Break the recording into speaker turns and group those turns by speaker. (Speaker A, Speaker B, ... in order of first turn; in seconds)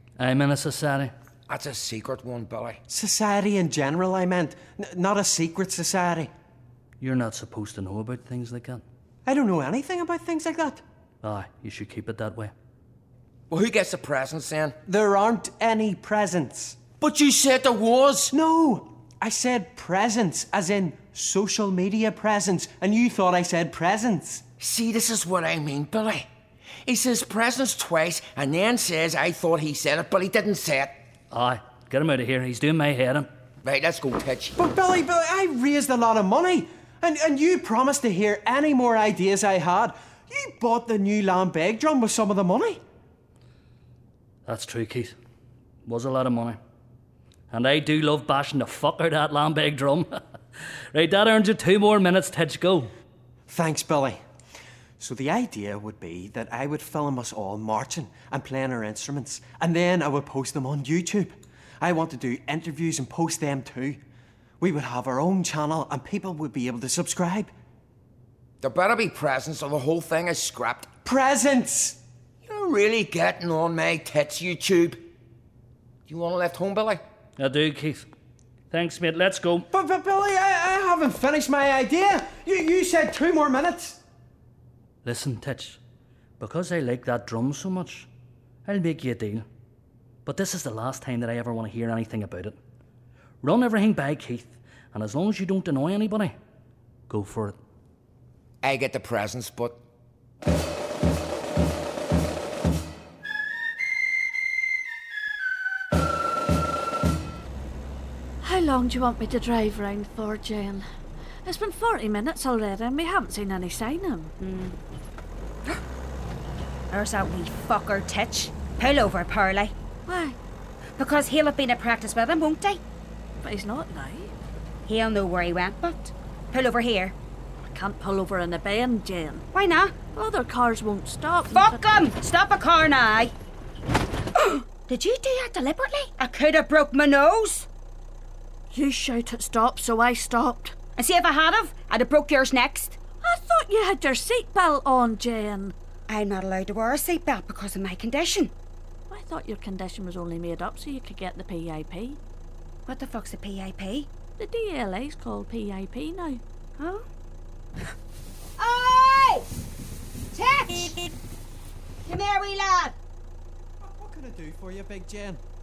Speaker A: 0.2-1.1, 7.0-8.8, 11.2-12.5, 31.3-33.3, 44.5-45.1, 45.9-46.6, 47.5-50.2, 50.9-52.9, 77.4-78.1, 78.7-79.7, 85.0-85.8, 86.4-88.1, 88.7-89.4, 90.2-92.6, 93.4-96.3, 97.1-97.5
Speaker B: 1.5-2.8, 13.5-14.8, 17.0-18.3, 24.6-26.3, 26.9-31.0, 33.6-34.5, 68.6-70.9, 72.4-75.1, 76.1-77.0, 98.6-99.8
Speaker C: 2.9-6.3, 9.2-10.8, 14.8-16.8, 18.3-24.4, 34.5-42.8, 53.5-54.2, 55.0-64.0, 64.6-67.5, 71.0-72.0, 79.7-84.0, 163.8-165.4
Speaker D: 108.4-110.8, 111.4-114.3, 120.1-120.4, 123.4-124.3, 127.7-129.4, 130.1-131.8, 138.7-140.7, 143.2-145.7, 149.1-152.2, 154.4-156.4
Speaker E: 114.4-114.8, 116.9-119.7, 121.0-122.8, 124.9-127.1, 129.5-130.0, 131.5-133.3, 134.3-137.7, 141.0-143.0, 146.1-148.5, 152.9-154.1, 156.8-157.0, 158.6-159.5, 160.3-161.1, 162.1-162.9